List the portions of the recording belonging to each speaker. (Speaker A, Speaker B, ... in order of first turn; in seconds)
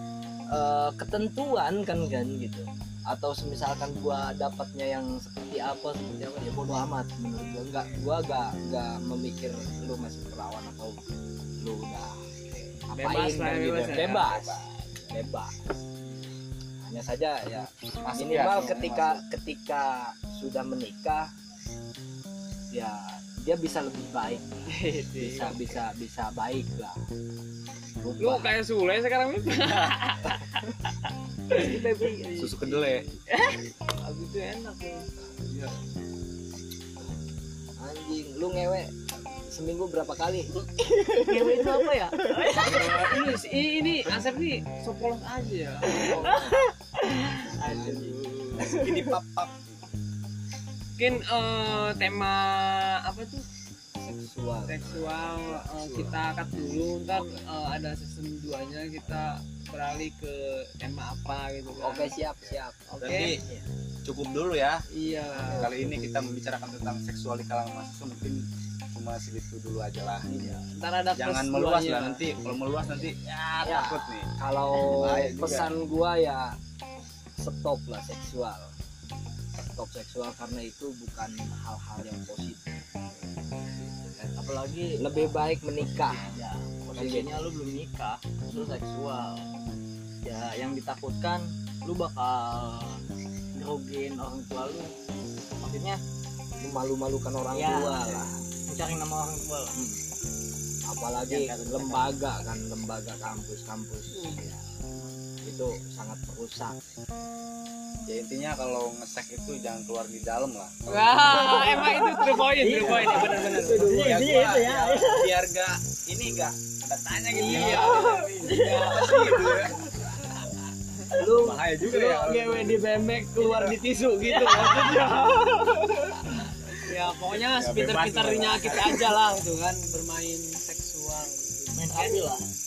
Speaker A: 0.5-11.0, 11.6-12.2, 12.9-15.7, 16.8-21.3, 22.7-27.0, 28.0-28.6, 37.8-40.6, 41.2-42.7, 45.8-46.6, 47.5-48.8, 54.0-56.2, 57.1-57.5, 61.7-62.8, 65.2-66.0, 70.3-70.6, 73.7-76.5, 77.4-78.7, 79.6-82.8, 85.0-86.4, 86.9-87.4, 88.5-88.8, 96.6-98.3, 99.8-100.0, 100.9-104.6, 105.4-106.8, 112.8-113.9, 117.5-117.8, 121.1-126.7
Speaker B: 12.9-14.3, 24.7-25.8, 28.2-30.6, 31.5-35.1, 42.3-46.4, 51.0-53.5, 54.7-62.1, 62.9-63.4, 64.9-65.7, 70.7-72.2, 104.1-104.5, 110.9-114.0, 117.3-119.4, 123.4-125.2, 126.8-132.2
Speaker C: 14.2-14.6, 18.0-19.2, 32.4-33.0, 35.5-35.8, 48.6-49.9, 62.4-63.4, 64.0-64.8, 65.4-70.3, 71.2-75.7, 108.1-112.0, 113.2-119.8, 121.3-122.8, 127.5-129.2
Speaker D: 31.5-32.4, 40.8-43.1, 45.9-46.5, 47.6-48.9, 84.3-89.5, 90.2-93.0, 93.5-94.9, 95.6-96.0, 97.5-99.8, 101.3-102.2, 112.5-115.3, 117.5-119.7, 123.4-123.7, 124.4-125.1, 131.7-132.5